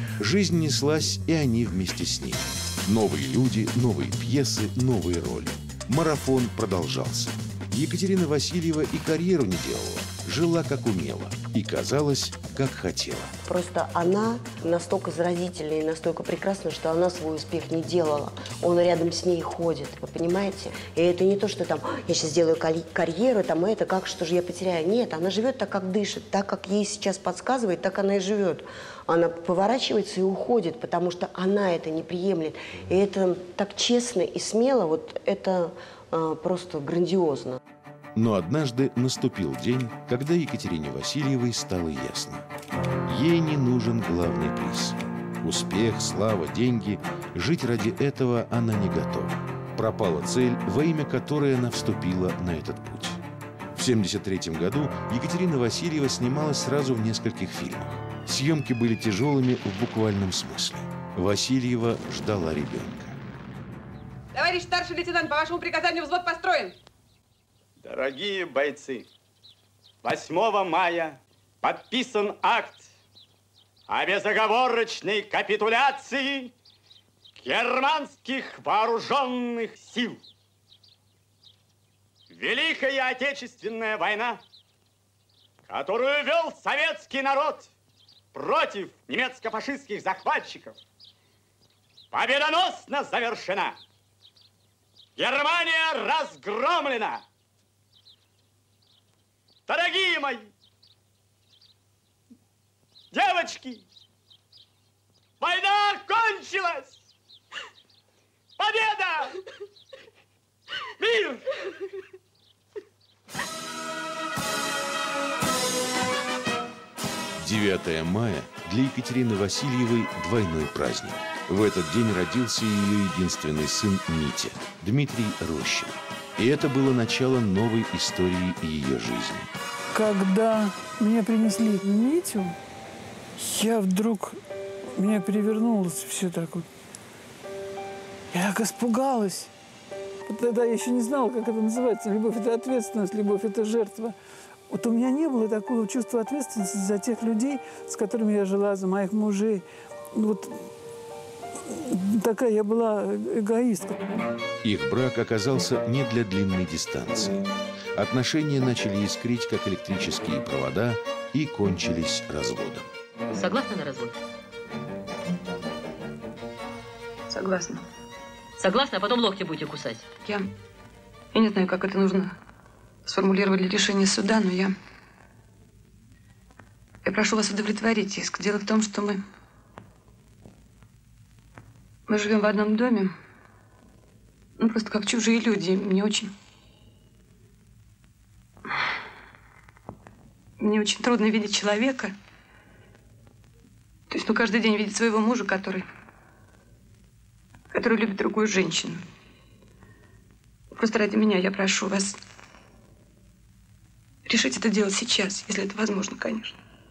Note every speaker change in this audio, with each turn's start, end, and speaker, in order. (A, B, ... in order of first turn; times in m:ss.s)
0:00.2-0:13.3 A
0:13.5-0:37.6 B
0:38.2-0:42.4 A
0:43.1-0:53.2 A
0:53.7-1:03.2 A
1:04.3-1:06.8 C
1:07.8-1:09.1 D
1:10.0-1:12.9 D
1:13.9-1:16.5 D
1:17.4-1:20.2 D
1:22.3-1:24.4 D
1:25.7-1:27.7 D
1:28.3-1:30.8 D
1:32.1-1:33.8 D
1:35.2-1:37.2 D
1:39.7-1:40.5 D
1:43.1-1:43.8 D
1:45.4-1:46.9 D
1:48.6-1:49.3 D
1:51.0-1:51.4 D
1:57.4-2:09.5 A
2:09.9-2:12.5 E
2:13.4-2:14.4 E
2:15.0-2:16.7 E
2:18.3-2:19.5 E
2:20.3-2:24.2 E
2:24.7-2:30.6 E
2:31.7-2:34.3 E
2:34.6-2:42.9 A
2:43.4-2:44.1 F
2:47.3-2:47.8 G
2:48.6-2:50.0 F
2:50.2-2:50.5 G
2:51.3-2:52.3 G
2:53.0-2:54.7 G
2:57.0-2:59.2 G
3:02.1-3:03.1 G
3:04.6-3:06.3 G
3:10.6-3:12.1 G
3:14.1-3:15.8 G
3:17.7-3:19.0 G
3:20.8-3:22.2 G
3:24.3-3:26.6 G